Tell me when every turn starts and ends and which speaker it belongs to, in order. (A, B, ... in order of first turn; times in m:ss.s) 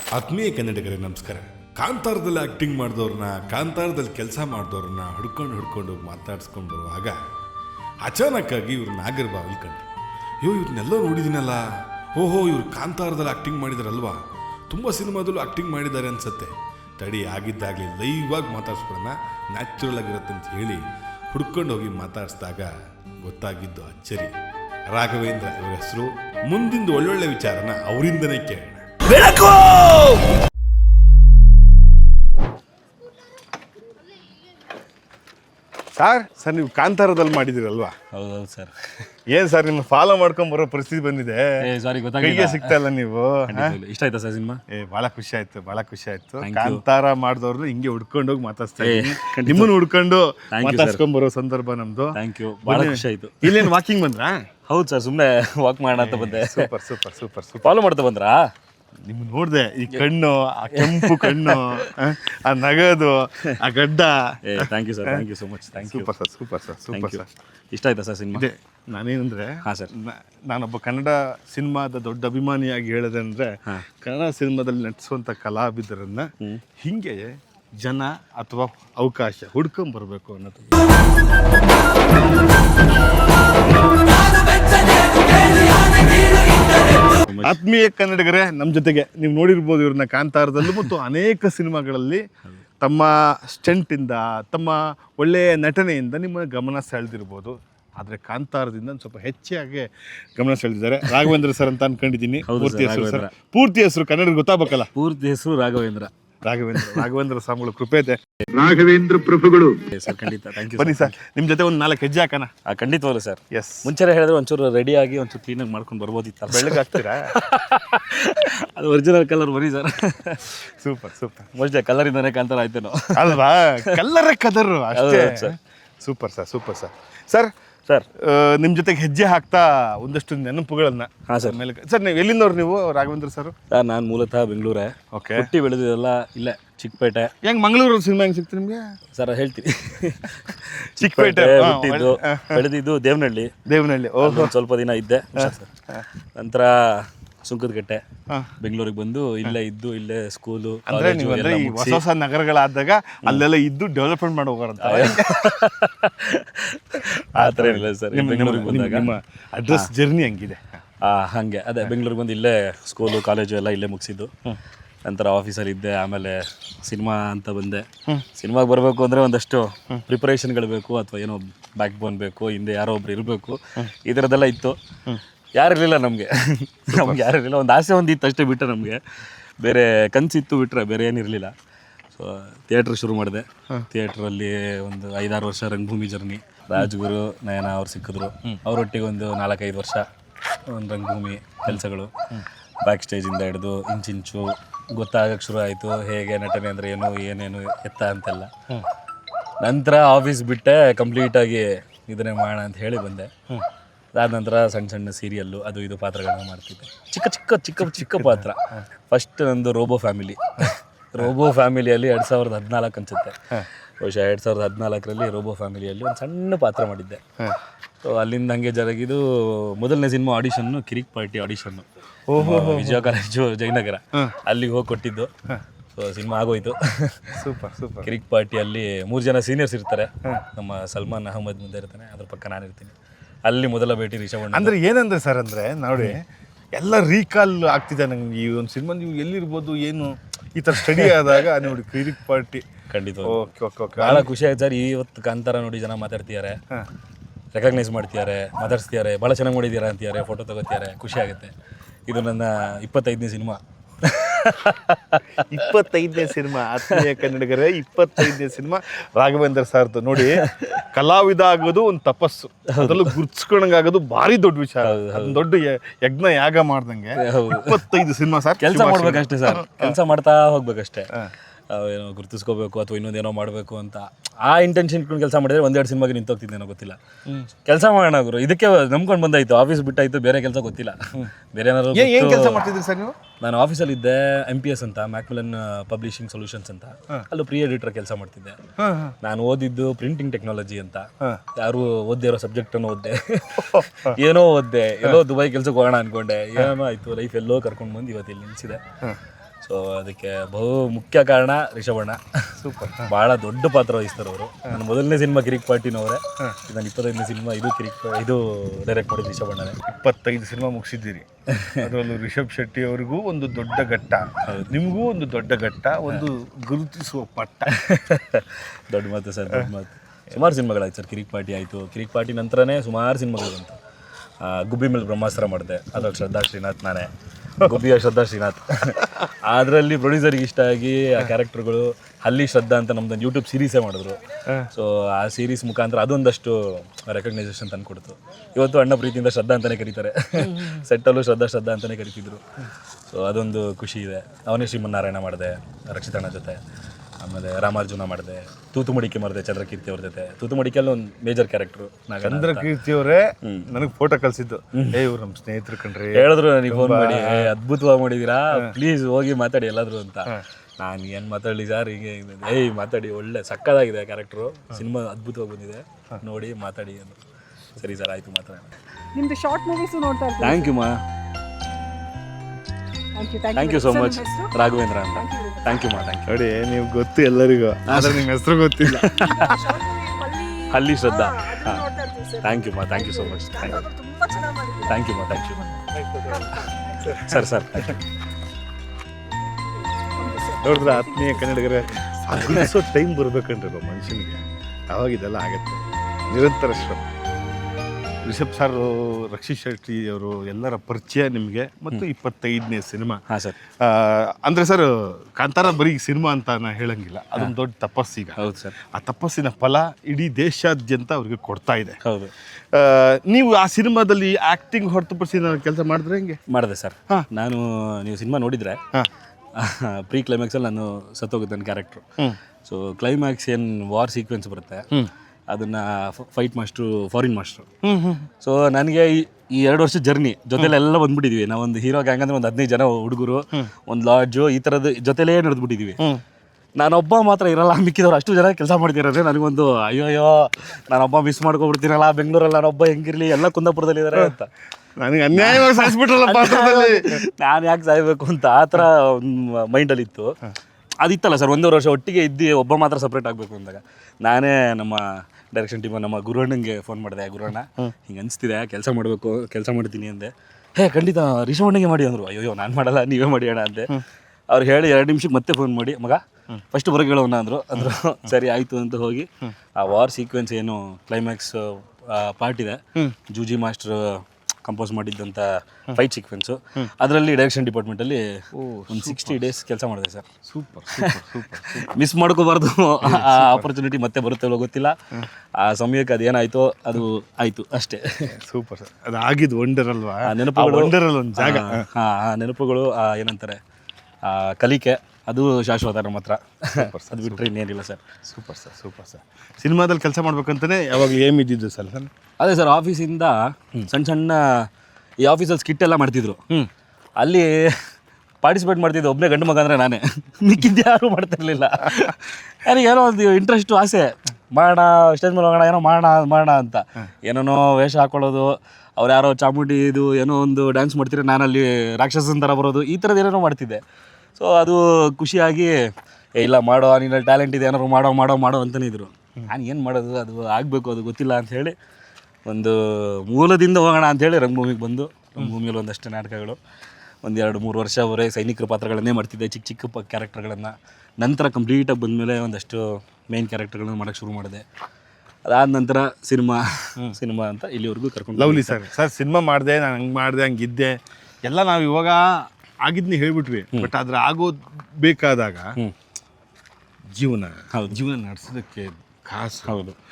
0:00.1-0:07.2 A
0:08.0-0:24.4 A
0:24.9-0:30.2 A
0:36.0-0:38.0 A
0:38.1-0:38.7 B
0:39.3-0:41.6 A
0:41.6-0:42.8 B
0:42.2-0:43.8 A
0:43.5-0:44.6 B
0:44.7-0:54.5 A
0:46.4-0:46.8 B
0:48.8-0:49.7 B
0:50.5-0:51.0 B
0:52.1-0:53.7 B
0:54.7-0:56.7 B
0:56.0-0:57.8 A
0:57.6-0:58.5 B
0:59.0-1:07.3 A
1:00.7-1:02.0 B
1:04.4-1:06.1 B
1:06.9-1:08.5 B
1:08.3-1:20.8 A
1:09.6-1:09.9 B
1:27.1-1:27.6 B
1:27.4-1:32.3 A
1:32.8-1:44.9 A
1:42.5-1:43.3 B
1:44.9-1:46.1 B
1:46.4-1:50.1 A
1:46.8-1:47.0 B
1:49.9-1:51.1 B
1:50.7-1:52.5 A
1:52.7-2:00.6 B
1:53.5-1:53.9 A
1:56.5-1:57.3 A
2:00.6-2:01.5 A
2:01.5-2:04.0 B
2:03.1-2:07.5 A
2:04.9-2:05.6 B
2:08.1-2:13.6 A
2:11.3-2:11.6 B
2:13.7-2:17.3 B
2:15.1-2:15.5 A
2:17.4-2:18.9 A
2:19.1-2:23.6 B
2:21.0-2:22.7 A
2:23.7-2:24.5 A
2:24.2-2:25.7 B
2:25.4-2:26.0 A
2:26.4-2:28.0 B
2:28.6-2:32.0 B
2:30.9-2:35.6 A
2:34.8-2:39.1 B
2:37.4-2:40.8 A
2:41.0-2:44.3 B
2:45.0-2:54.8 B
2:55.6-2:59.0 B
2:56.9-2:57.3 A
2:59.6-3:01.5 B
3:02.1-3:10.0 B
3:10.7-3:12.1 B
3:12.8-3:18.5 B
3:19.6-3:23.3 B
3:24.1-3:33.4 B
3:34.0-3:37.2 B
3:38.0-3:41.8 B
3:42.3-3:43.0 A
3:42.4-3:45.3 B
3:46.0-3:47.4 B
3:47.4-3:48.1 A
3:48.0-3:52.9 B
3:53.5-3:54.8 B
3:54.5-4:02.7 A
4:02.9-4:03.4 B
4:03.2-4:04.3 A
4:04.0-4:06.6 B
4:07.5-4:11.5 B
4:12.1-4:15.7 B
4:15.3-4:30.0 A
4:16.8-4:17.2 B
4:20.2-4:20.8 B
4:22.7-4:23.2 B
4:24.8-4:25.4 B
4:27.2-4:27.8 B
4:28.6-4:31.1 B
4:31.7-4:37.0 B
4:37.6-4:42.6 B
4:41.9-4:43.2 A
4:43.4-4:48.6 B
4:48.8-4:49.2 A
4:49.2-4:58.8 B
4:53.6-4:54.2 A
4:59.6-5:09.8 B
5:02.6-5:03.1 A
5:09.9-5:17.8 A
5:11.5-5:11.9 B
5:14.4-5:14.7 B
5:17.7-5:23.8 B
5:24.4-5:34.2 B
5:34.7-5:42.4 B
5:40.4-5:40.8 A
5:43.1-5:46.6 B
5:47.2-5:52.7 B
5:52.2-5:57.5 A
5:53.4-5:53.7 B
5:54.7-5:55.0 B
5:56.1-6:07.2 B
6:07.8-6:08.7 B
6:09.2-6:10.8 C
6:10.4-6:11.0 B
6:13.2-6:15.9 C
6:13.5-6:16.3 B
6:16.3-6:19.1 A
6:17.9-6:18.3 B
6:18.8-6:19.7 B
6:19.2-6:27.2 C
6:20.7-6:21.9 B
6:22.4-6:23.8 B
6:24.9-6:25.6 B
6:25.9-6:28.0 A
6:27.1-6:28.0 B
6:30.1-6:31.6 C
6:30.6-6:37.1 A
6:32.4-6:32.7 B
6:38.2-6:43.2 A
6:43.3-6:43.6 B
6:43.8-6:52.0 A
6:48.4-6:48.8 B
6:52.0-6:52.3 B
6:52.7-6:56.4 A
6:56.5-6:58.8 B
6:59.6-7:02.0 B
7:02.6-7:04.9 B
7:05.5-7:07.7 B
7:07.8-7:08.3 A
7:08.4-7:16.0 B
7:16.8-7:24.5 B
7:25.0-7:27.2 A
7:25.4-7:30.4 B
7:31.0-7:44.0 B
7:44.5-7:46.2 B
7:46.7-8:00.3 B
7:58.5-7:59.4 A
8:00.4-8:01.9 A
8:00.9-8:05.0 B
8:03.0-8:03.7 A
8:05.6-8:08.4 B
8:08.3-8:11.8 A
8:10.2-8:13.6 B
8:14.2-8:18.0 B
8:16.8-8:17.5 A
8:18.2-8:22.1 A
8:22.4-8:24.7 B
8:25.2-8:26.4 B
8:27.2-8:27.9 B
8:28.4-8:43.8 B
8:44.4-8:51.8 B
8:52.5-8:56.6 B
8:57.2-9:04.6 B
9:05.5-9:08.8 B
9:08.4-9:15.8 A
9:17.1-9:19.7 A
9:17.7-9:18.0 B
9:19.6-9:20.0 B